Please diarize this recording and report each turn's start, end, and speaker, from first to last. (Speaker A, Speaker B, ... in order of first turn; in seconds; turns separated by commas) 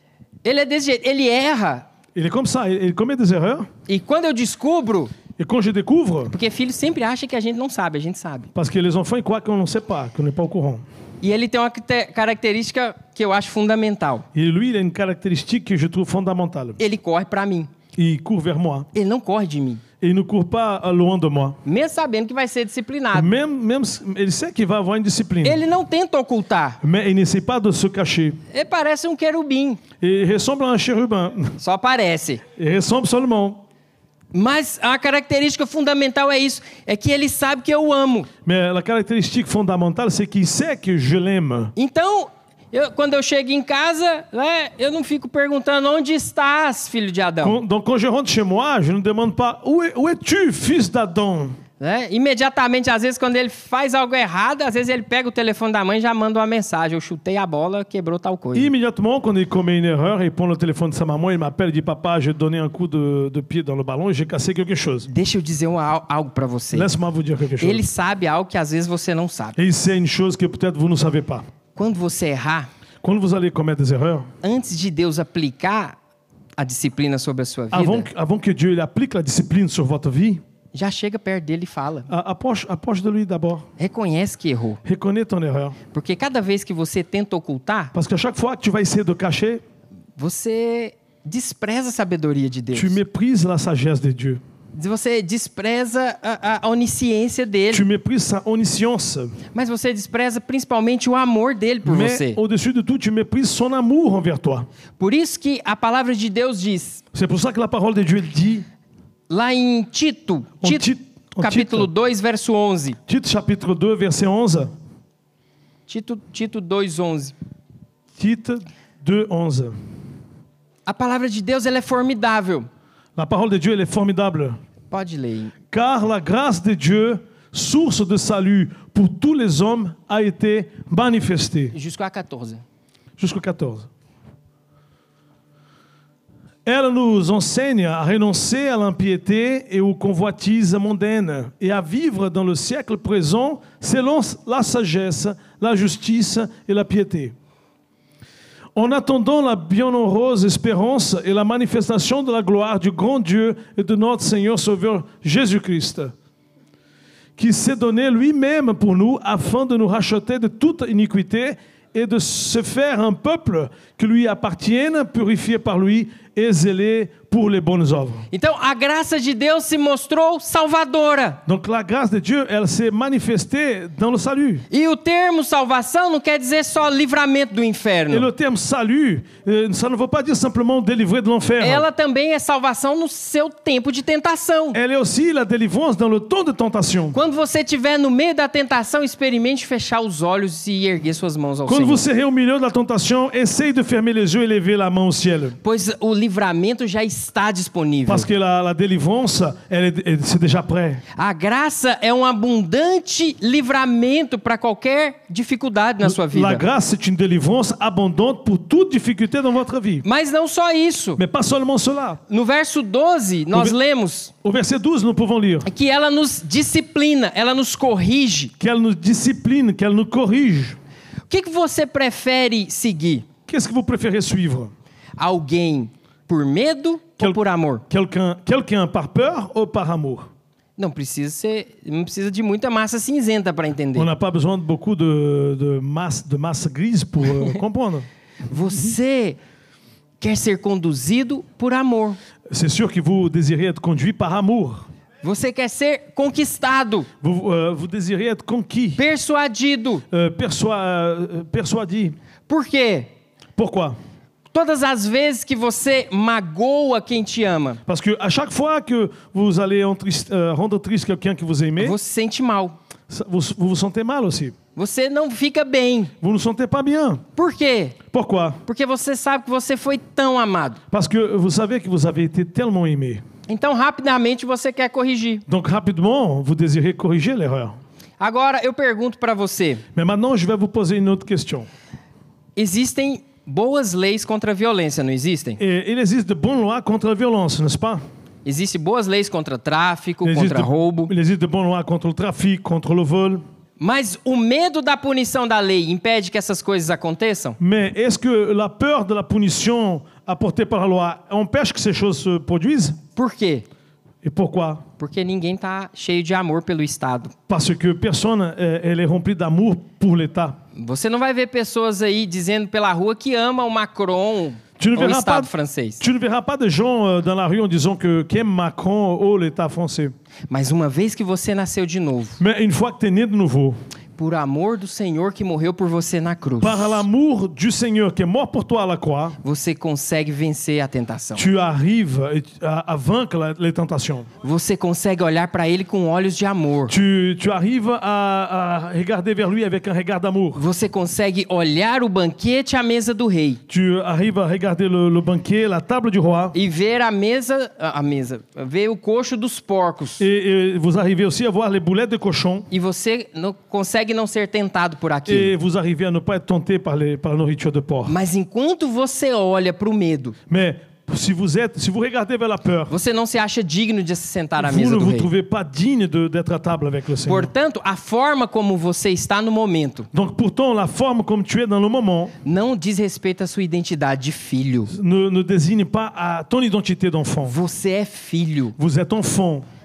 Speaker A: 0.5-1.9, Speaker B: 2.1-3.7, Speaker A: 3.9-5.1, Speaker B: 5.4-6.3, Speaker A: 6.3-8.5, Speaker B: 8.6-10.8, Speaker A: 11.2-14.3, Speaker B: 14.3-16.8, Speaker A: 16.8-17.7, Speaker B: 18.0-18.9, Speaker A: 18.9-19.8, Speaker B: 20.0-21.6, Speaker A: 21.6-23.3, Speaker B: 23.1-25.6, Speaker A: 25.4-26.8, Speaker B: 26.8-28.4, Speaker A: 28.5-29.8, Speaker B: 30.0-31.6, Speaker A: 31.6-32.4, Speaker B: 32.6-33.6, Speaker A: 34.3-38.3, Speaker B: 38.5-41.7, Speaker A: 41.8-47.6, Speaker B: 47.4-51.6, Speaker A: 51.8-58.7, Speaker B: 58.5-65.1, Speaker A: 65.0-66.9, Speaker B: 66.7-67.8, Speaker A: 67.6-69.6, Speaker B: 69.6-71.5, Speaker A: 71.8-72.7, Speaker B: 73.0-74.3, Speaker A: 74.4-76.0, Speaker A: 76.6-78.1, Speaker B: 77.7-80.4, Speaker A: 80.7-82.1, Speaker B: 82.1-83.7, Speaker A: 83.8-84.8, Speaker B: 84.8-85.8, Speaker A: 85.9-87.9, Speaker B: 87.9-89.6, Speaker A: 90.2-93.0, Speaker B: 92.7-94.4, Speaker A: 94.8-97.8, Speaker B: 97.7-99.4, Speaker A: 99.5-102.4, Speaker B: 101.8-104.7, Speaker A: 105.0-107.0, Speaker B: 107.1-108.7, Speaker A: 109.3-110.9, Speaker B: 110.6-111.9, Speaker A: 111.4-113.0, Speaker B: 113.1-114.7, Speaker A: 115.9-117.3, Speaker B: 118.2-119.8, Speaker A: 120.9-122.7, Speaker B: 123.2-124.6, Speaker A: 124.9-125.5, Speaker B: 125.7-131.7, Speaker A: 131.7-132.6, Speaker B: 133.2-133.9, Speaker B: 136.7-147.3, Speaker B: 148.8-156.1, Speaker B: 157.4-168.3, Speaker A: 168.3-171.4, Speaker B: 171.5-174.6, Speaker A: 174.7-178.3, Speaker B: 178.1-181.8, Speaker A: 181.6-184.8, Speaker B: 184.7-187.2, Speaker A: 187.1-192.0, Speaker B: 191.7-195.6, Speaker A: 195.6-198.3, Speaker B: 198.1-201.0, Speaker A: 201.1-206.6, Speaker B: 206.0-210.1, Speaker A: 210.0-211.2, Speaker B: 211.2-212.2, Speaker A: 212.3-214.3, Speaker B: 214.4-215.7, Speaker A: 215.7-218.5, Speaker B: 218.6-220.8, Speaker A: 221.3-223.3, Speaker B: 223.5-224.7, Speaker A: 225.2-227.8, Speaker B: 227.2-230.3, Speaker A: 230.8-234.1, Speaker B: 233.9-238.1, Speaker A: 238.5-239.4, Speaker A: 240.2-242.2, Speaker B: 242.5-244.9, Speaker A: 245.2-247.1, Speaker B: 247.2-249.0, Speaker A: 249.0-250.0, Speaker B: 250.1-252.2, Speaker A: 252.5-253.1, Speaker B: 253.6-254.0, Speaker A: 254.5-257.8, Speaker B: 257.9-262.0, Speaker A: 261.8-262.8, Speaker B: 263.1-264.6, Speaker A: 264.8-266.1, Speaker B: 266.2-267.2, Speaker A: 267.4-268.0, Speaker B: 268.1-268.6, Speaker A: 268.6-270.8, Speaker B: 270.9-273.2, Speaker A: 273.5-275.4, Speaker B: 275.5-277.8, Speaker A: 278.2-279.8, Speaker B: 279.9-281.7, Speaker A: 282.6-285.6, Speaker B: 285.6-288.0, Speaker A: 288.4-291.1, Speaker B: 290.2-293.4, Speaker A: 293.8-297.6, Speaker B: 297.6-303.0, Speaker A: 303.1-303.6, Speaker B: 304.2-304.9, Speaker A: 305.0-307.3, Speaker B: 307.5-310.6, Speaker A: 310.8-316.0, Speaker B: 314.8-320.1, Speaker A: 320.5-322.4, Speaker B: 322.4-323.8, Speaker A: 324.2-327.0, Speaker B: 326.6-329.4, Speaker A: 329.4-331.4, Speaker B: 331.4-334.3, Speaker A: 334.4-336.9, Speaker B: 336.9-340.6, Speaker A: 340.6-343.6, Speaker B: 343.7-346.6, Speaker A: 346.5-350.2, Speaker B: 350.2-352.7, Speaker A: 352.7-355.5, Speaker B: 355.3-358.1, Speaker A: 358.1-360.4, Speaker B: 360.5-362.9, Speaker A: 362.9-365.3, Speaker B: 364.6-367.5, Speaker A: 367.3-370.1, Speaker B: 370.1-372.3, Speaker A: 372.4-374.9, Speaker B: 374.9-377.6, Speaker A: 377.4-378.8, Speaker B: 378.8-379.6